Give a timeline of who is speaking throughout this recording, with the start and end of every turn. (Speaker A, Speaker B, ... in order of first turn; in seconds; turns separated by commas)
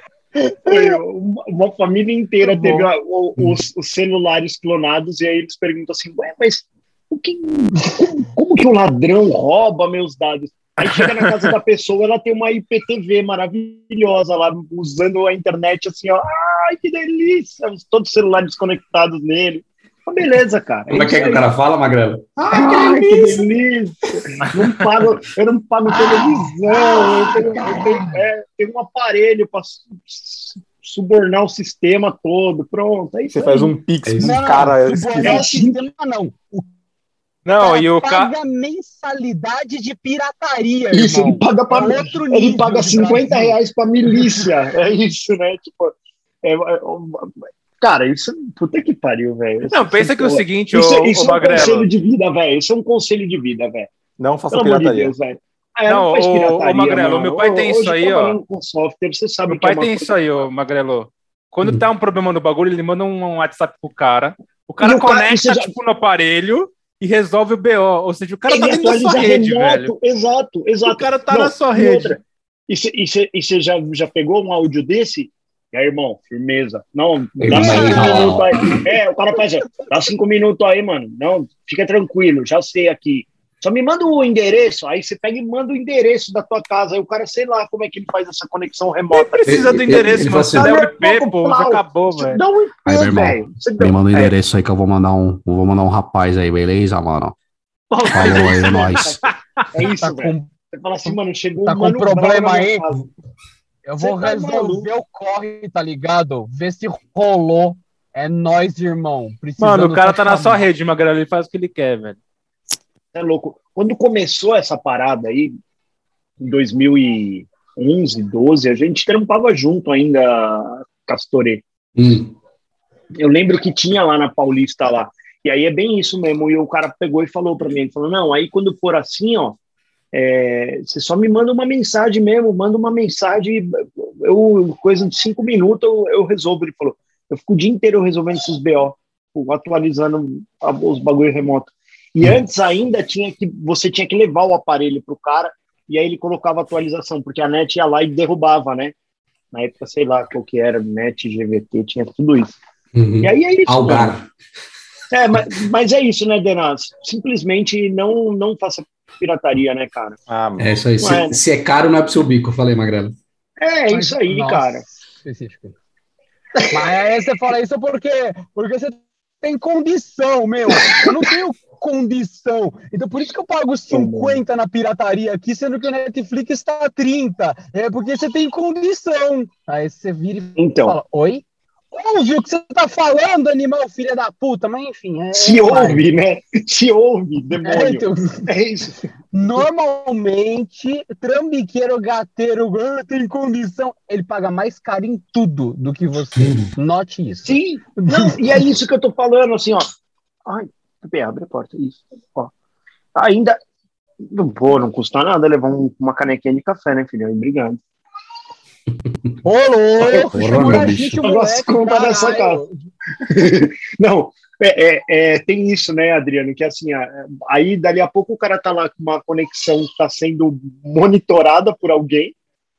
Speaker A: 0.4-1.0, Speaker B: 0.7-21.5, Speaker A: 2.4-2.9, Speaker C: 10.8-11.5, Speaker D: 20.9-22.5, Speaker E: 22.5-23.4, Speaker B: 22.5-33.7, Speaker A: 25.9-28.2, Speaker E: 33.3-35.5, Speaker D: 34.0-34.4, Speaker A: 34.2-36.6, Speaker B: 35.2-35.8, Speaker C: 37.5-38.3, Speaker A: 37.6-43.6, Speaker B: 40.9-53.9, Speaker C: 49.7-51.9, Speaker E: 54.2-55.1, Speaker B: 54.5-60.1, Speaker C: 55.9-58.4, Speaker C: 59.5-69.9, Speaker B: 64.8-65.7, Speaker B: 68.5-94.3, Speaker C: 70.8-72.2, Speaker D: 77.4-78.7, Speaker A: 77.5-78.4, Speaker C: 89.1-92.4, Speaker D: 89.5-90.7, Speaker D: 92.9-97.4, Speaker B: 97.9-103.1, Speaker C: 98.0-99.3, Speaker D: 98.1-99.2, Speaker A: 99.9-100.5, Speaker A: 101.0-102.8, Speaker A: 103.8-110.7, Speaker B: 104.0-104.9, Speaker C: 109.6-112.2, Speaker B: 113.1-115.5, Speaker B: 116.4-121.6, Speaker D: 122.0-122.3, Speaker B: 123.2-129.6, Speaker B: 130.1-148.9, Speaker B: 149.5-152.6, Speaker D: 152.9-154.3, Speaker B: 153.2-154.2, Speaker B: 155.1-160.2, Speaker E: 160.3-160.7, Speaker D: 160.6-163.2, Speaker B: 161.0-161.4, Speaker B: 163.6-164.8, Speaker A: 163.9-165.7, Speaker A: 166.7-186.0, Speaker B: 173.9-174.4, Speaker B: 180.6-181.0, Speaker B: 185.3-189.0, Speaker A: 187.6-188.5, Speaker A: 189.3-198.6, Speaker D: 196.4-196.7, Speaker B: 197.4-199.9, Speaker B: 200.4-202.5, Speaker B: 203.2-203.6, Speaker B: 204.2-207.8, Speaker A: 209.4-212.7, Speaker D: 210.0-211.2, Speaker B: 210.1-212.6, Speaker B: 213.2-222.3